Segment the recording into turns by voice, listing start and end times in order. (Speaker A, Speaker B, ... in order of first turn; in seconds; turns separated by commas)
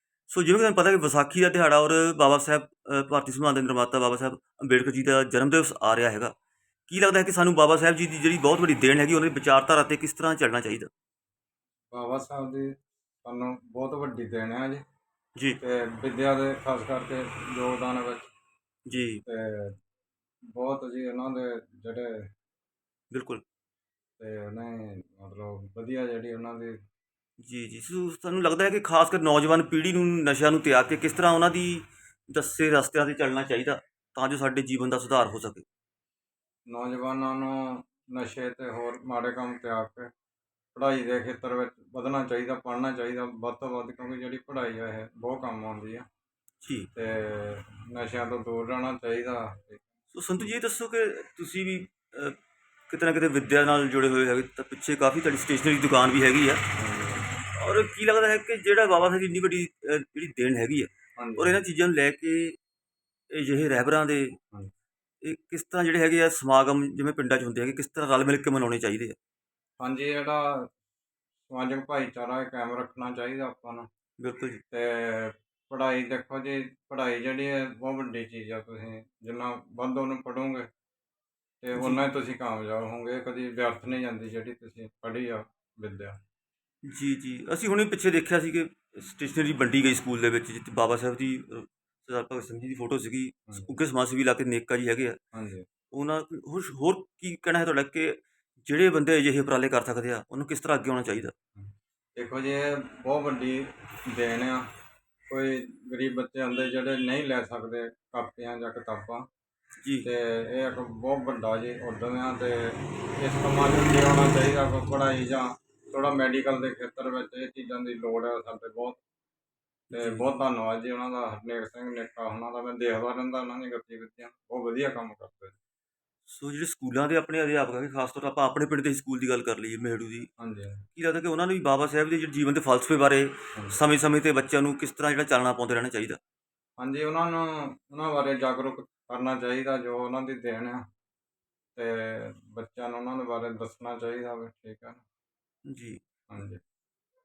Speaker A: 0.3-6.3, Speaker A: 6.9-10.9, Speaker B: 11.9-14.8, Speaker B: 15.6-18.3, Speaker A: 18.9-19.2, Speaker B: 19.2-19.8, Speaker B: 20.5-22.3, Speaker A: 23.1-23.4, Speaker B: 24.2-26.8, Speaker A: 27.4-35.6, Speaker B: 36.7-40.1, Speaker B: 40.8-46.1, Speaker A: 46.6-46.9, Speaker B: 47.0-49.9, Speaker A: 50.1-52.4, Speaker A: 52.9-56.8, Speaker B: 56.8-57.3, Speaker A: 57.5-62.6, Speaker B: 61.2-61.6, Speaker A: 63.3-64.4, Speaker A: 65.2-69.2, Speaker B: 69.8-70.7, Speaker B: 71.5-73.9, Speaker A: 74.2-74.6, Speaker B: 74.7-80.7, Speaker B: 81.6-86.2, Speaker A: 81.7-82.0, Speaker A: 86.9-95.2, Speaker B: 95.3-95.7, Speaker A: 95.9-101.3, Speaker B: 101.6-104.7, Speaker B: 105.3-109.3, Speaker B: 110.0-119.0, Speaker A: 119.9-120.2, Speaker B: 119.9-125.5, Speaker A: 126.3-130.3, Speaker B: 130.4-130.8, Speaker A: 130.9-136.2, Speaker B: 136.8-140.8, Speaker B: 141.8-145.0, Speaker A: 145.7-146.0, Speaker B: 146.3-146.6